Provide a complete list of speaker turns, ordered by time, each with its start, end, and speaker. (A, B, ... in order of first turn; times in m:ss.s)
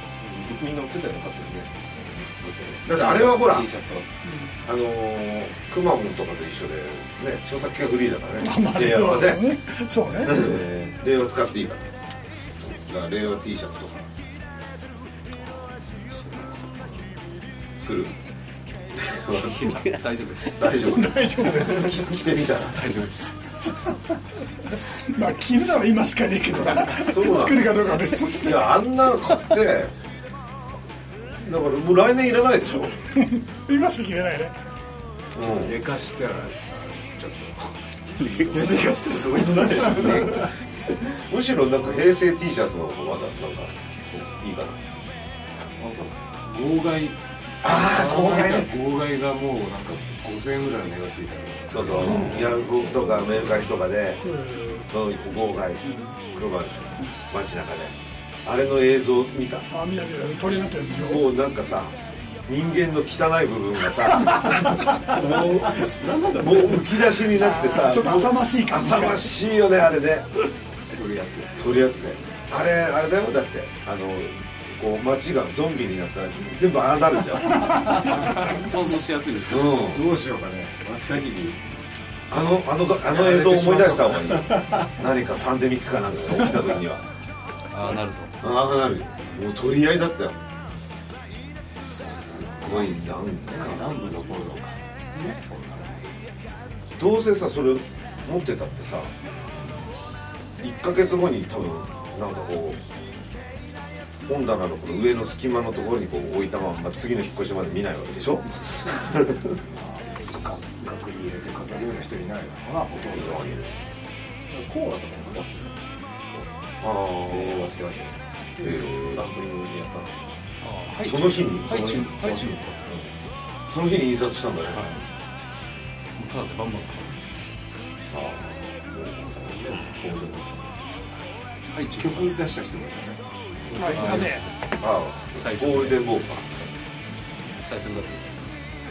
0:00.2-0:04.4 A
0:02.8-0:03.7 B
0:04.6-0:09.5 B
0:08.4-0:10.4 C
0:10.2-0:11.9 B
0:10.3-0:11.0 A
0:12.6-0:14.1 B
0:16.1-0:16.6 D
0:17.8-0:18.1 B
0:19.0-0:19.9 B
0:19.3-0:20.8 E
0:20.4-0:22.9 B
0:20.8-0:22.2 C
0:22.7-0:23.3 E
0:25.0-0:28.7 C
0:26.6-0:30.0 B
0:31.4-0:32.9 B
0:33.2-0:34.6 C
0:35.4-0:35.8 B
0:35.5-0:40.1 D
0:38.4-0:40.6 A
0:40.0-0:40.5 B
0:41.1-0:44.8 B
0:45.8-0:53.4 D
0:47.6-0:48.7 B
0:51.7-0:54.2 B
0:54.2-0:54.9 C
0:54.8-0:59.7 B
0:59.7-1:01.3 C
1:00.9-1:10.3 B
1:05.3-1:06.7 A
1:06.0-1:06.8 D
1:07.3-1:09.3 C
1:10.9-1:11.7 D
1:11.6-1:18.3 B
1:18.0-1:19.7 E
1:19.5-1:20.1 B
1:19.8-1:21.6 D
1:22.3-1:27.1 B
1:23.1-1:24.9 D
1:27.7-1:28.4 E
1:28.4-1:30.4 B
1:32.0-1:34.0 B
1:32.2-1:36.1 D
1:37.0-1:39.1 B
1:40.6-1:43.0 B
1:44.3-1:49.6 B
1:49.7-1:53.5 D
1:53.1-1:53.8 B
1:54.5-1:56.5 A
1:56.8-1:57.7 B
1:57.2-2:00.2 A
1:58.6-1:59.3 B
2:00.6-2:02.8 E
2:01.0-2:02.6 B
2:03.7-2:04.9 B
2:06.2-2:07.2 E
2:08.1-2:09.5 B
2:09.4-2:11.0 A
2:11.7-2:12.3 E
2:11.9-2:13.2 D
2:13.7-2:14.5 E
2:13.8-2:14.4 C
2:14.8-2:16.5 B
2:15.4-2:16.0 E
2:17.6-2:18.4 E